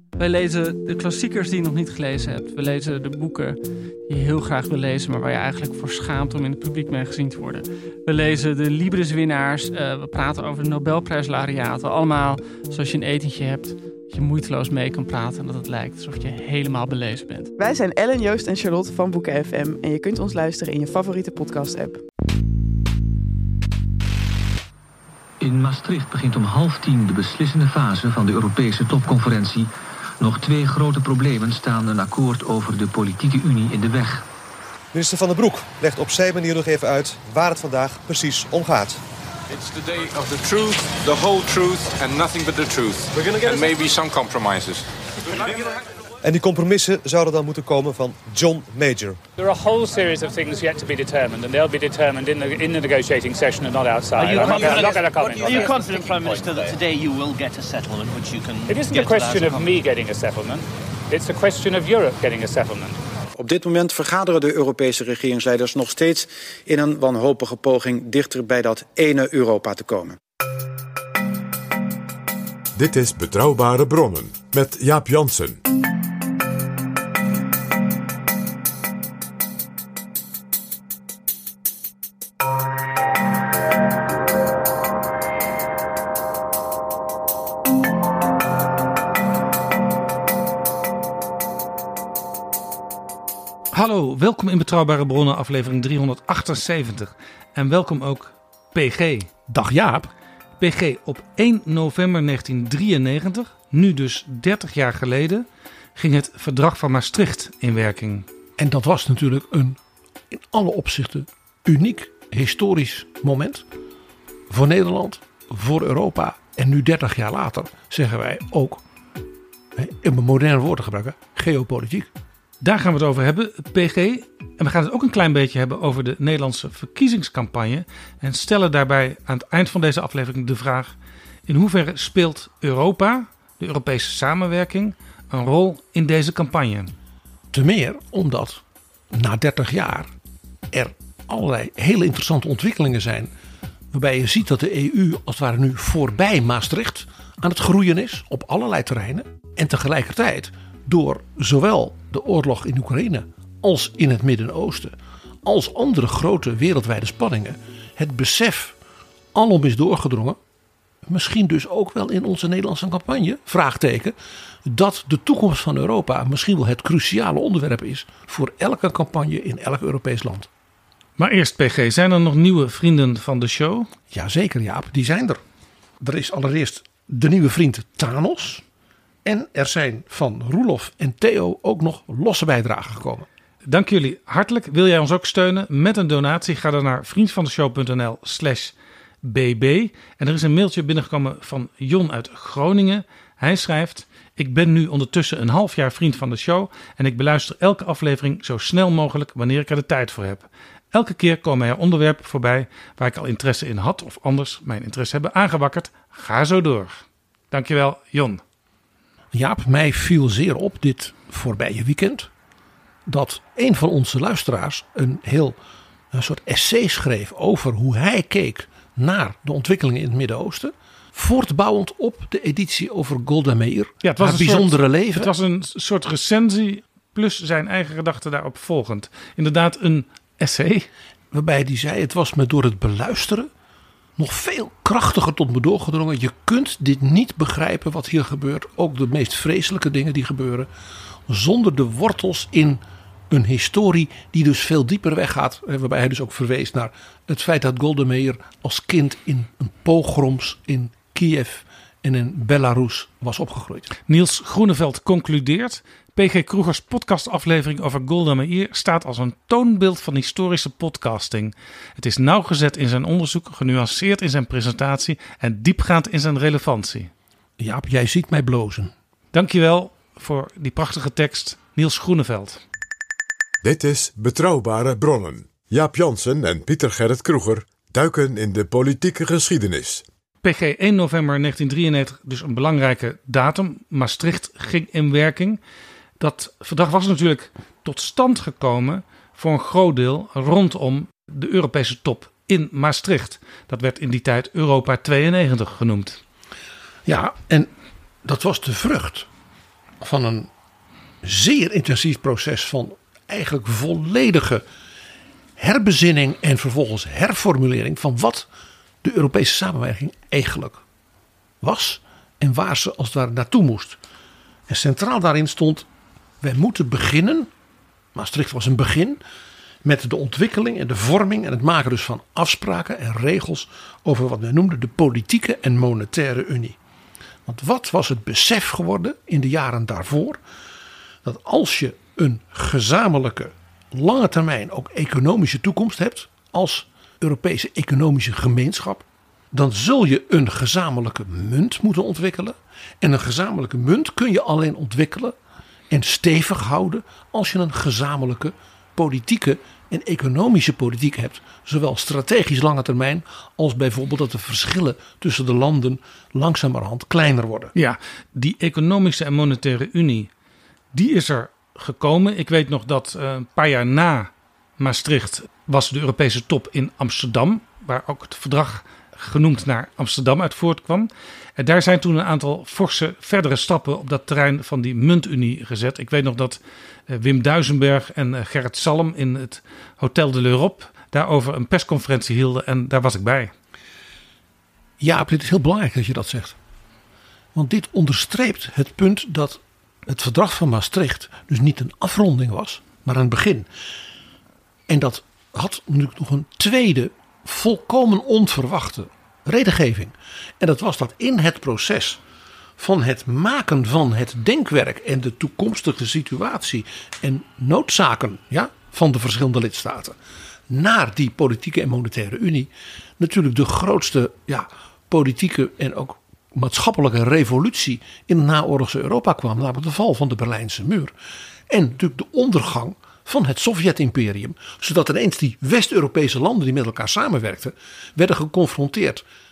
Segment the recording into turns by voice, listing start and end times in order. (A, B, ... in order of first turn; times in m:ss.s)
0:00.2-0:17.5 A
0:17.6-0:22.0 B
0:25.4-0:34.2 C
0:34.9-0:39.0 D
0:39.5-0:44.8 E
0:46.2-0:49.2 D
0:49.4-0:56.0 F
0:54.2-0:59.8 G
0:58.6-1:03.0 F
1:03.3-1:10.2 H
1:12.7-1:15.6 I
1:33.7-1:39.3 J
1:39.5-1:40.1 K
1:40.6-1:45.4 J
1:46.0-1:48.2 J
1:48.6-1:49.8 K
1:50.3-1:53.6 K
1:54.5-1:58.8 K
1:59.8-2:02.1 K
2:02.6-2:10.9 J
2:11.5-2:16.9 J
2:17.5-2:18.6 K
2:19.1-2:20.1 K
2:20.7-2:23.3 K
2:23.9-2:34.9 K
2:35.4-2:38.7 K
2:39.3-2:40.4 K
2:41.1-2:44.1 K
2:44.6-2:50.5 K
2:51.2-2:53.9 J
2:54.1-2:55.4 K
2:56.0-2:58.6 K
2:59.2-3:03.3 K
3:03.6-3:28.4 J
3:29.3-3:32.3 K
3:33.1-3:35.6 K
3:36.1-3:45.3 K
3:44.0-3:50.9 J
3:51.3-3:53.5 K
3:54.2-4:00.7 K
4:01.3-4:13.9 K
4:14.1-4:27.1 J
4:27.6-4:28.9 K
4:29.3-4:32.6 J
4:33.6-4:40.0 I
4:40.4-4:45.6 J
4:46.2-4:56.2 J
4:57.0-4:57.7 K
4:58.2-4:59.3 K
5:00.0-5:00.5 K
5:01.2-5:04.6 K
5:05.6-5:08.4 K
5:09.0-5:10.8 K
5:11.6-5:14.0 K
5:14.7-5:15.8 K
5:16.4-5:17.5 K
5:18.1-5:19.2 K
5:19.8-5:26.8 K
5:27.5-5:30.4 K
5:31.2-5:45.3 K
5:45.9-5:57.7 K
5:57.7-6:00.3 J
6:00.9-6:23.5 J
6:25.0-6:26.5 K
6:27.5-6:33.7 K
6:34.9-6:42.2 K
6:42.8-6:50.1 K
6:50.7-7:01.1 K
7:01.7-7:09.2 K